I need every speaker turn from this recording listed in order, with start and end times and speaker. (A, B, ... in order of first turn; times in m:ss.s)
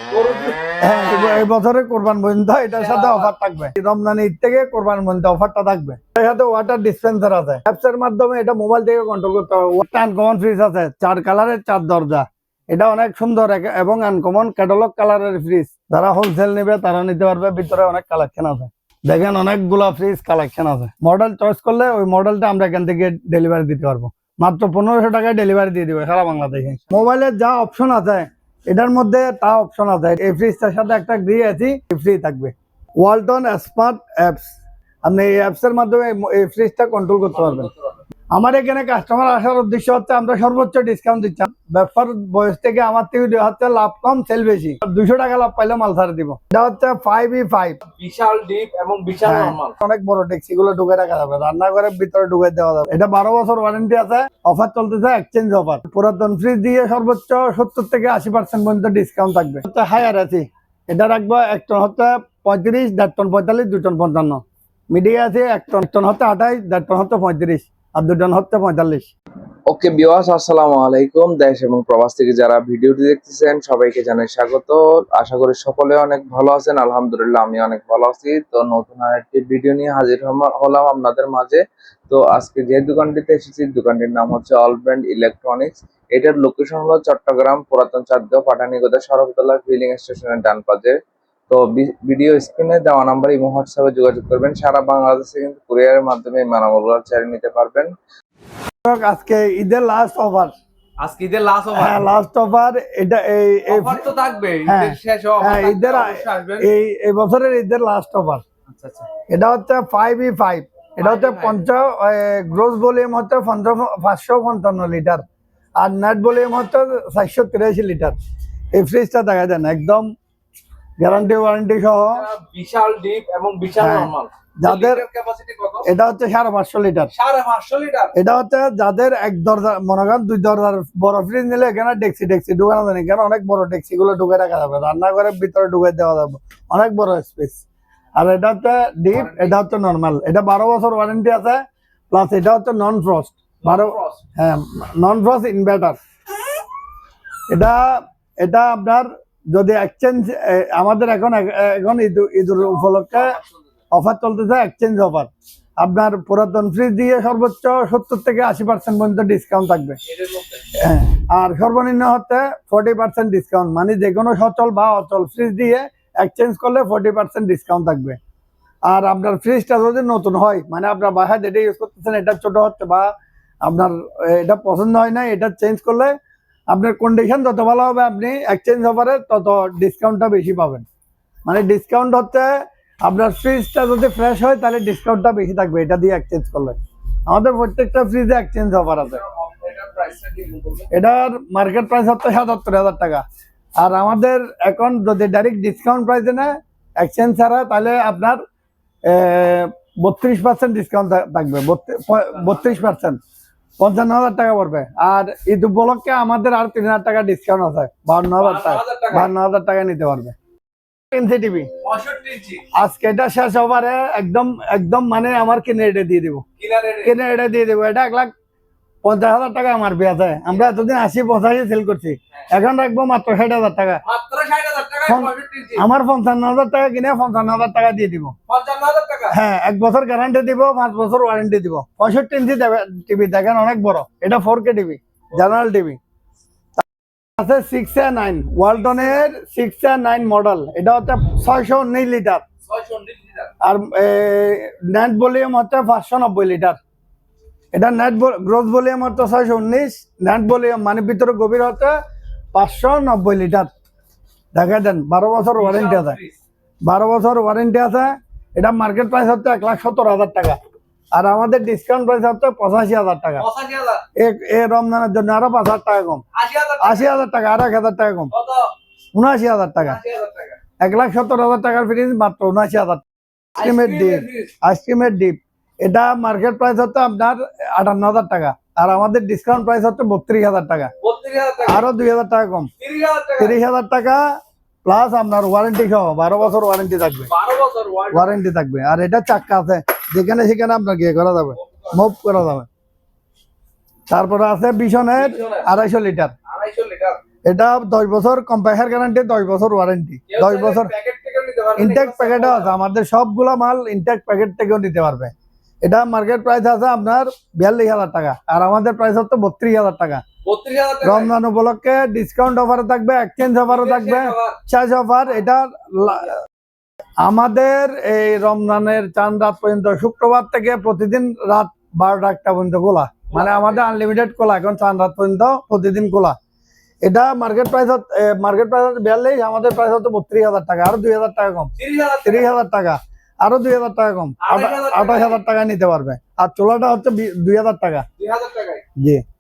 0:00.1-0:00.6 A
0:00.8-0:37.7 B
0:02.7-0:03.3 A
0:37.3-0:38.0 A
0:38.3-0:47.8 B
0:47.9-0:49.8 A
0:49.2-1:09.1 B
1:09.7-1:31.0 C
1:31.5-1:37.9 C
1:38.8-1:40.5 B
1:41.0-1:42.1 A
1:41.7-1:44.1 B
1:43.7-1:46.7 A
1:44.6-1:48.4 B
1:48.7-1:49.1 A
1:49.3-1:55.2 B
1:51.0-1:51.6 A
1:55.8-1:58.2 B
1:58.7-2:00.1 B
2:01.0-2:02.2 B
2:02.1-2:05.9 A
2:03.8-2:05.0 B
2:05.8-2:07.1 B
2:07.1-2:08.1 A
2:08.1-2:17.6 B
2:18.2-2:26.0 B
2:19.1-2:19.7 A
2:23.6-2:24.2 A
2:27.5-2:33.4 B
2:32.6-2:33.6 A
2:33.9-2:40.0 B
2:40.1-2:40.6 A
2:40.7-2:48.2 B
2:48.8-2:56.2 B
2:56.7-3:00.9 B
3:01.5-3:06.8 B
3:07.3-3:09.2 B
3:09.0-3:10.9 A
3:10.9-3:13.2 B
3:13.8-3:18.4 B
3:19.0-3:23.2 B
3:22.4-3:22.7 A
3:23.8-3:30.4 B
3:28.4-3:29.3 A
3:31.1-3:31.7 B
3:31.8-3:32.6 A
3:32.7-3:36.4 B
3:36.6-3:37.2 A
3:37.0-3:38.3 B
3:39.0-3:44.0 B
3:44.0-3:45.8 A
3:45.1-3:48.3 B
3:48.5-3:49.4 A
3:49.3-3:56.0 B
3:57.4-4:02.4 B
3:58.8-3:59.3 A
4:02.7-4:03.5 A
4:03.6-4:06.8 B
4:07.7-4:12.0 B
4:12.5-4:13.7 B
4:14.5-4:16.2 B
4:15.6-4:16.4 A
4:16.8-4:20.6 B
4:21.1-4:23.4 B
4:23.4-4:24.0 A
4:24.2-4:26.2 B
4:26.3-4:27.1 A
4:26.8-4:28.3 B
4:28.3-4:28.7 A
4:29.1-4:30.0 B
4:29.8-4:30.6 A
4:30.8-4:33.0 B
4:33.6-4:34.5 A
4:33.6-4:40.9 B
4:41.0-4:41.9 A
4:41.6-4:42.7 B
4:42.8-4:43.6 A
4:43.4-4:47.3 B
4:47.3-4:48.4 A
4:48.1-4:52.7 B
4:51.6-4:51.9 A
4:54.1-4:56.3 B
4:55.1-4:55.7 A
4:56.5-4:57.2 A
4:57.4-5:00.9 B
5:00.3-5:02.7 A
5:01.8-5:10.2 B
5:10.4-5:11.3 A
5:11.0-5:16.4 B
5:13.7-5:14.6 A
5:17.2-5:26.4 B
5:23.3-5:23.8 A
5:27.0-5:38.1 B
5:31.8-5:32.5 A
5:34.4-5:35.4 A
5:38.2-5:38.8 A
5:39.0-5:39.2 B